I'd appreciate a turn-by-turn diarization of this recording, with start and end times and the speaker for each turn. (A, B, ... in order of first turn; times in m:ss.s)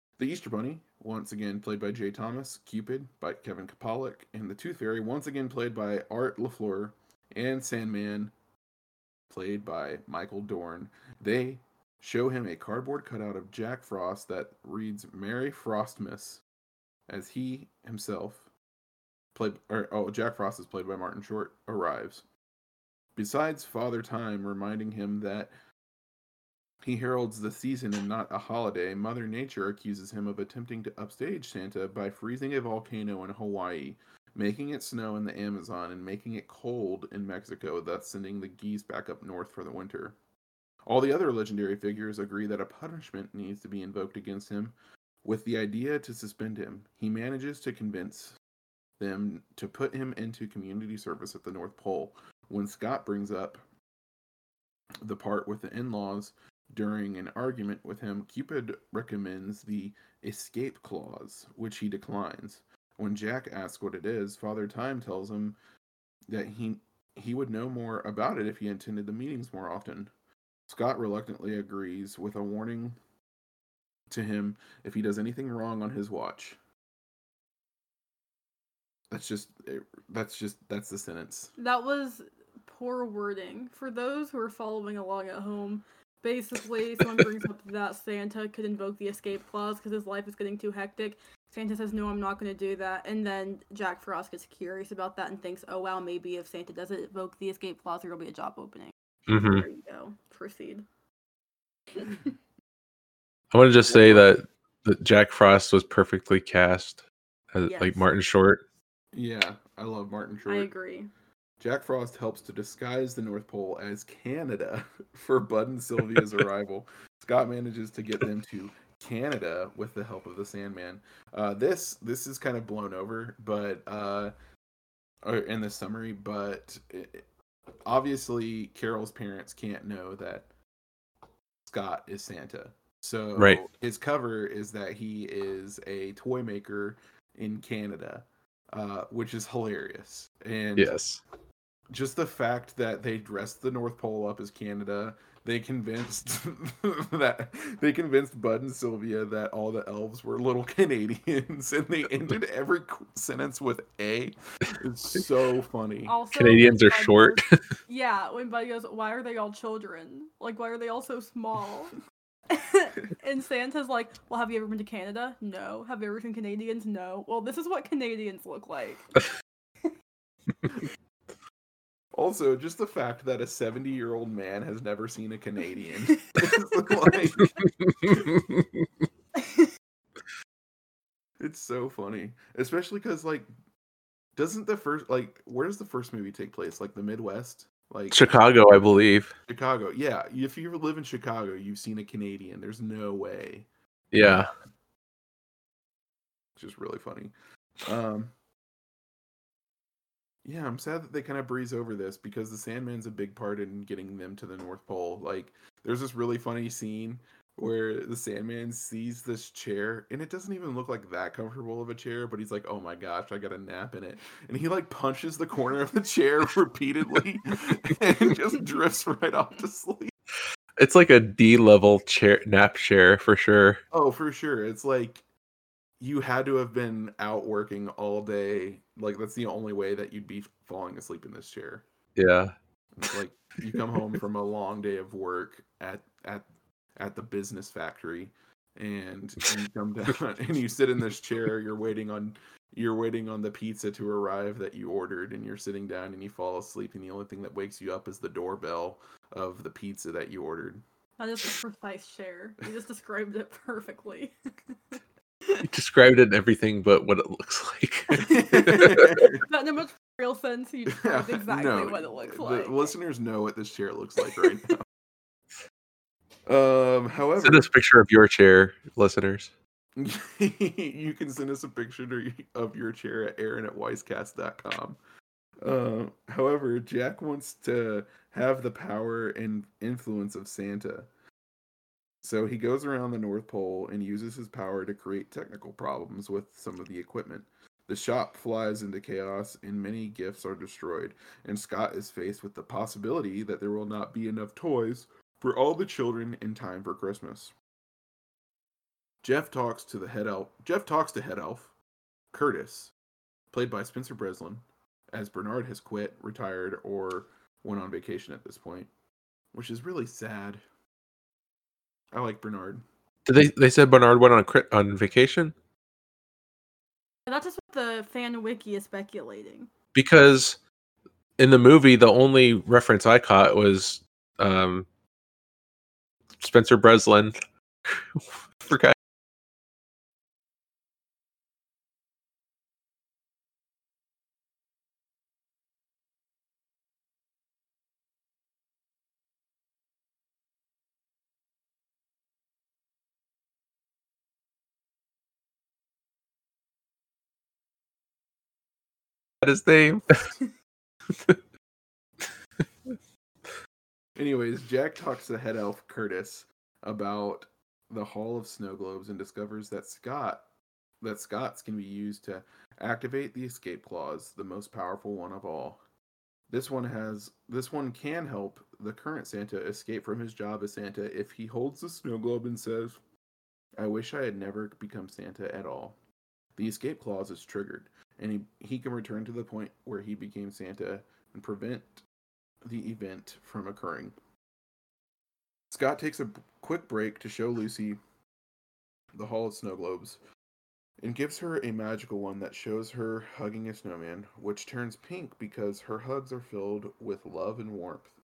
0:00.2-0:08.3 A
0:09.3-0:16.4 A
0:17.1-0:18.5 A
0:19.3-0:22.2 A
0:23.2-0:25.5 A
0:26.8-0:40.2 A
0:40.9-0:48.4 A
0:49.0-0:53.6 A
0:55.0-1:05.6 A
1:06.3-1:10.1 A
1:10.7-1:13.0 A
1:14.1-1:16.6 A
1:19.1-1:21.5 A
1:21.6-1:40.8 B
1:39.3-1:39.7 C
1:42.0-1:42.3 B
1:43.5-1:48.6 C
1:43.8-1:44.3 A
1:47.7-1:48.0 B
1:49.1-1:50.7 A
1:50.5-1:51.1 B
1:51.6-2:04.3 A
2:05.2-2:07.3 A
2:07.9-2:10.5 A
2:11.6-2:20.9 A
2:20.8-2:21.2 C
2:21.9-2:36.2 A
2:36.1-2:42.0 B
2:36.3-2:37.4 C
2:42.5-2:49.1 B
2:52.1-2:57.6 A
2:57.6-2:58.7 C
2:59.4-2:59.7 B
3:01.4-3:03.5 A
3:04.4-3:08.2 A
3:08.1-3:09.3 C
3:09.5-3:13.7 A
3:14.1-3:14.5 C
3:16.6-3:18.3 A
3:20.4-3:40.1 A
3:40.8-3:43.8 C
3:43.9-3:45.2 A
3:46.0-3:51.8 A
3:52.2-3:52.5 C
3:53.0-4:10.8 A
4:11.2-4:14.4 B
4:15.6-4:19.3 C
4:18.2-4:19.4 A
4:19.3-4:22.9 B
4:21.0-4:24.8 A
4:26.5-4:27.7 A
4:27.4-4:29.5 C
4:30.0-4:35.0 A
4:35.6-4:41.1 A
4:42.2-4:57.5 A
4:59.2-5:01.7 A
5:02.3-5:02.9 A
5:03.5-5:08.9 A
5:09.5-5:10.6 A
5:12.1-5:12.8 A
5:13.3-5:15.6 C
5:17.3-5:19.7 B
5:19.9-5:20.6 C
5:21.4-5:24.9 C
5:26.4-5:27.4 C
5:27.9-5:29.0 C
5:49.4-5:50.3 C
5:54.2-6:00.4 A
6:01.0-6:05.8 A
6:06.5-6:13.0 A
6:13.8-6:16.0 A
6:16.6-6:22.0 A
6:22.6-6:24.2 A
6:25.7-6:28.0 A
6:29.2-6:30.2 A
6:31.0-6:38.2 A